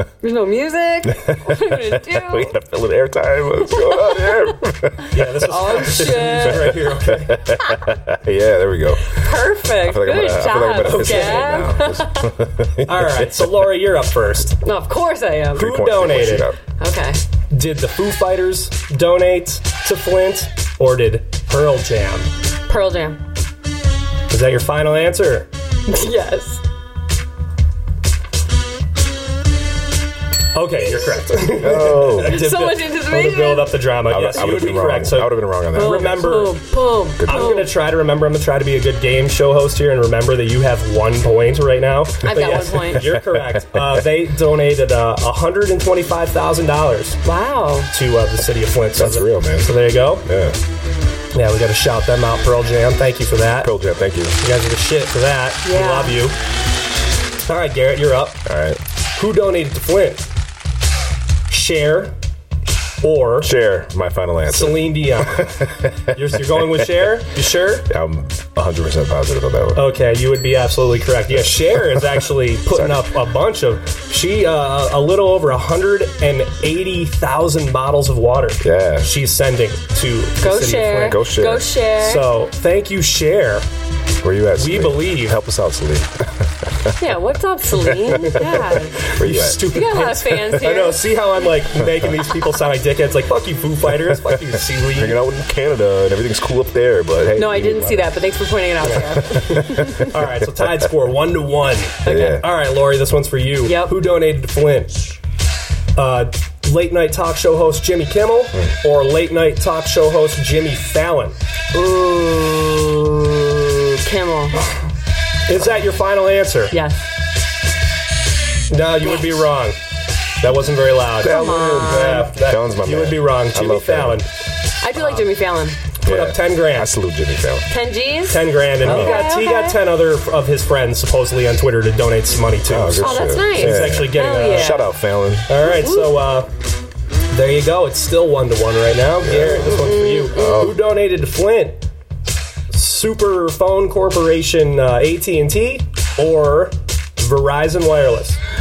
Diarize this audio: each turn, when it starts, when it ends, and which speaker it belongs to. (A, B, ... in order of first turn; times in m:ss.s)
0:00.2-0:02.5 A
0:01.1-0:13.5 B
0:03.9-0:04.3 A
0:05.1-0:07.4 C
0:05.5-0:06.8 A
0:09.1-0:12.3 A
0:10.8-0:11.5 C
0:12.8-0:14.6 C
0:14.6-0:15.8 A
0:15.5-0:16.6 B
0:15.6-0:16.5 C
0:16.7-0:17.2 A
0:17.5-0:22.3 C
0:22.7-0:23.2 A
0:24.3-0:25.5 C
0:25.9-0:26.6 A
0:30.6-0:36.6 C
0:31.0-0:31.2 A
0:31.5-0:32.4 B
0:31.9-0:33.8 A
0:34.1-0:36.3 B
0:35.7-0:37.7 A
0:37.2-0:37.6 B
0:37.3-0:47.2 C
0:42.2-0:43.1 A
0:43.0-0:44.0 B
0:47.2-0:47.9 A
0:47.9-0:50.2 C
0:49.0-0:50.6 B
0:51.3-0:53.7 C
0:53.6-0:54.4 B
0:54.4-0:56.4 C
0:55.6-0:56.2 A
0:57.5-0:58.4 C
0:58.4-0:58.8 B
0:59.2-1:00.3 C
1:01.5-1:02.1 C
1:03.0-1:03.5 C
1:03.4-1:07.0 B
1:04.5-1:05.5 C
1:06.1-1:07.9 C
1:07.9-1:09.9 B
1:09.8-1:21.2 C
1:11.5-1:12.1 B
1:12.7-1:13.0 B
1:18.6-1:19.1 B
1:20.4-1:22.3 A
1:21.0-1:21.7 B
1:22.0-1:23.6 C
1:24.2-1:26.9 B
1:24.6-1:25.4 C
1:27.0-1:29.0 A
1:27.8-1:29.7 B
1:28.2-1:35.2 C
1:29.7-1:31.1 A
1:34.0-1:38.2 B
1:37.4-1:40.1 A
1:38.8-1:45.2 C
1:39.0-1:40.0 B
1:42.0-1:42.4 A
1:42.0-1:42.4 B
1:43.6-1:44.0 A
1:46.0-1:51.4 C
1:51.7-1:54.6 A
1:55.5-1:56.8 C
1:56.7-1:57.0 A
1:58.7-1:59.8 C
1:59.0-1:59.4 A
2:00.4-2:04.3 C
2:01.2-2:04.2 B
2:01.2-2:02.3 A
2:04.8-2:05.8 A
2:05.0-2:05.3 C
2:06.0-2:07.7 B
2:06.0-2:06.9 C
2:07.7-2:09.8 A
2:08.3-2:14.8 C
2:08.8-2:09.2 B
2:12.7-2:15.5 B
2:13.0-2:15.0 A
2:15.5-2:16.5 C
2:15.8-2:16.1 A
2:17.3-2:21.8 C
2:19.2-2:20.8 B
2:19.9-2:20.7 A
2:22.7-2:28.4 C